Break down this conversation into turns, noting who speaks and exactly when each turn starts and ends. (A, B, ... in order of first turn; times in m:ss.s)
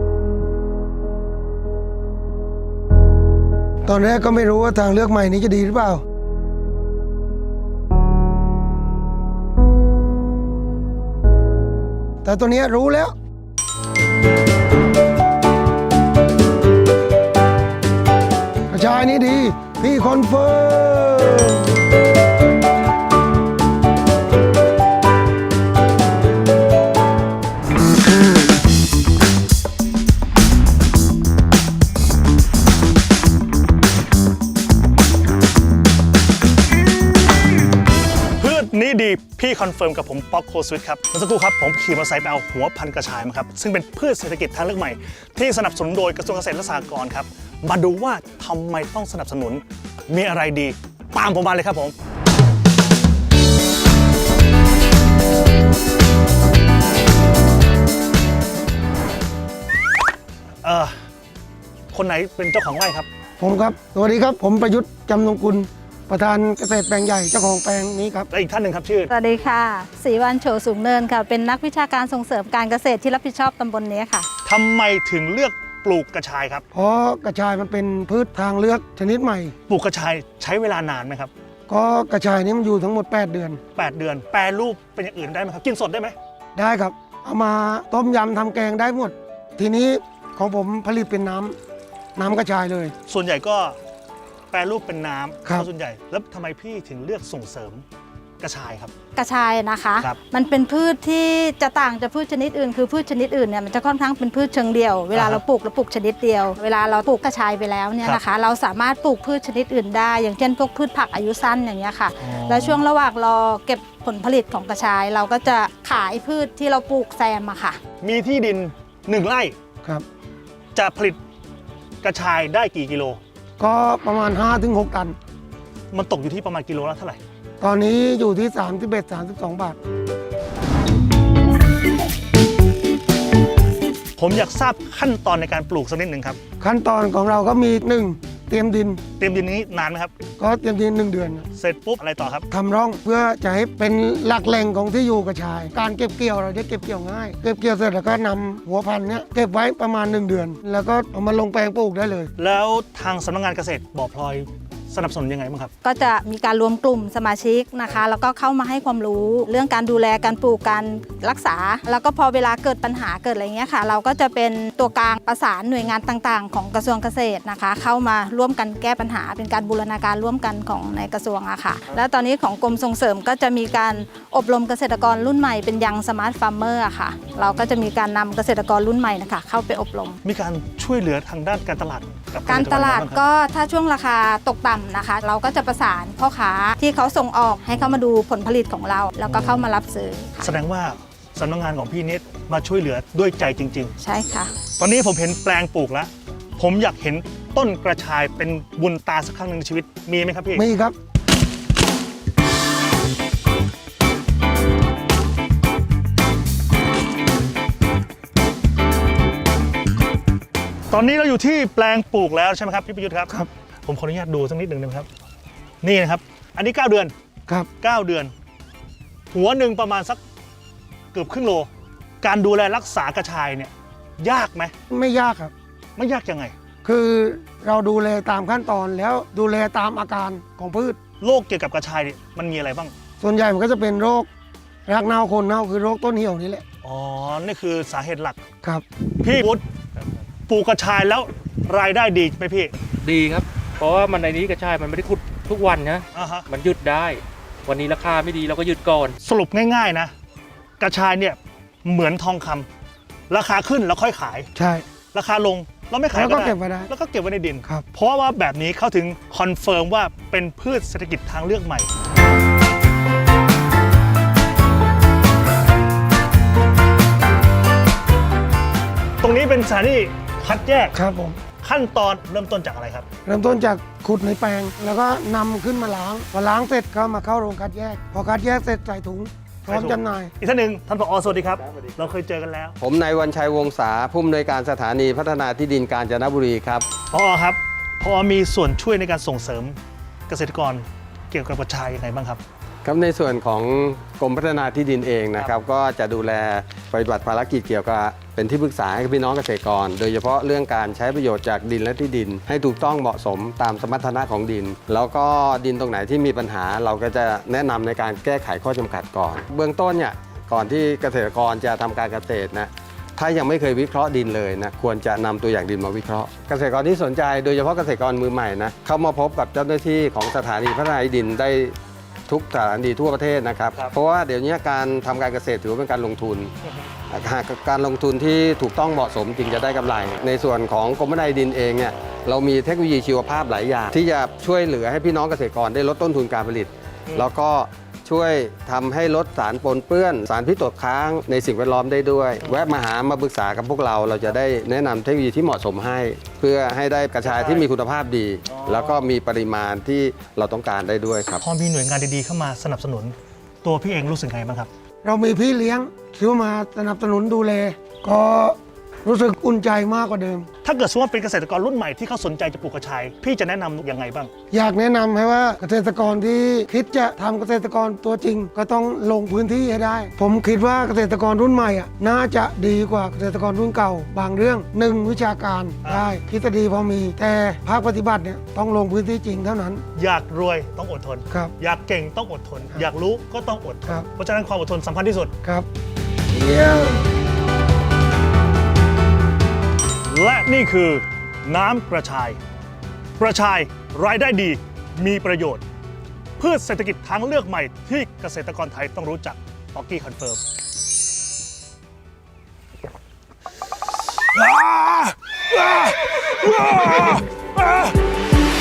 0:03.8-0:06.0 A
0:12.2-0:13.2 A
0:18.7-0:21.7 A
0:38.4-0:51.9 B
1:00.6-1:01.0 B
1:01.9-1:03.1 B
1:03.4-1:08.3 A
1:08.3-1:09.1 B
1:09.1-1:14.3 C
1:14.4-1:16.6 B
1:16.7-1:19.6 A
1:19.7-1:21.3 B
1:21.7-1:23.6 A
1:23.8-1:26.2 B
1:26.6-1:31.6 A
1:32.2-1:33.0 A
1:33.1-1:33.8 B
1:34.5-1:37.8 B
1:38.4-1:38.9 B
1:39.2-1:57.8 C
1:45.1-1:45.4 B
1:52.2-1:52.8 B
1:58.0-1:59.6 B
2:00.8-2:01.2 B
2:02.0-2:03.2 B
2:03.6-2:05.2 A
2:05.9-2:07.2 B
2:07.6-2:09.8 A
2:14.2-2:16.4 B
2:16.6-2:19.0 A
2:19.2-2:20.1 B
2:20.4-2:21.5 A
2:21.6-2:22.5 B
2:22.5-2:32.3 A
2:32.4-2:35.7 B
2:35.8-3:00.2 C
3:00.2-3:03.2 B
3:02.5-3:10.4 C
3:09.3-3:09.7 B
3:10.4-3:13.9 B
3:14.0-3:14.5 C
3:14.8-3:20.6 B
3:20.5-3:21.0 A
3:30.9-3:35.1 B
3:35.8-3:37.1 B
3:37.8-3:38.3 B
3:39.3-3:40.2 B
3:41.1-3:41.7 B
3:42.2-3:44.7 B
3:44.9-3:45.5 A
3:46.0-3:46.6 B
3:46.8-3:51.0 A
3:51.2-3:52.9 B
3:53.2-3:54.3 A
3:54.9-3:56.6 A
3:56.8-3:58.4 B
3:59.2-3:59.6 B
4:00.5-4:02.7 B
4:03.0-4:09.2 D
4:06.2-4:06.5 B
4:09.2-4:10.1 B
4:10.8-4:12.7 B
4:13.3-4:14.5 B
4:14.6-4:14.9 A
4:15.1-4:21.9 B
4:16.1-4:16.9 A
4:29.2-4:31.0 B
4:31.0-4:31.4 A
4:31.6-4:33.1 B
4:33.3-4:40.3 A
4:39.7-4:42.8 B
4:42.8-4:46.9 E
4:47.1-4:52.4 B
4:52.8-5:21.8 E
5:22.3-5:26.5 E
5:26.6-5:26.9 B
5:27.1-5:51.4 E
5:42.4-5:42.7 B
5:47.2-5:47.7 B
5:48.5-5:49.0 B
5:51.4-5:54.7 B
5:55.0-6:00.5 A
6:00.6-6:04.3 B
6:04.5-6:19.8 A
6:20.0-6:25.3 B
6:26.3-6:27.0 A
6:30.1-6:32.4 B
6:33.2-6:35.6 B
6:36.4-6:40.4 B
6:44.2-6:47.9 B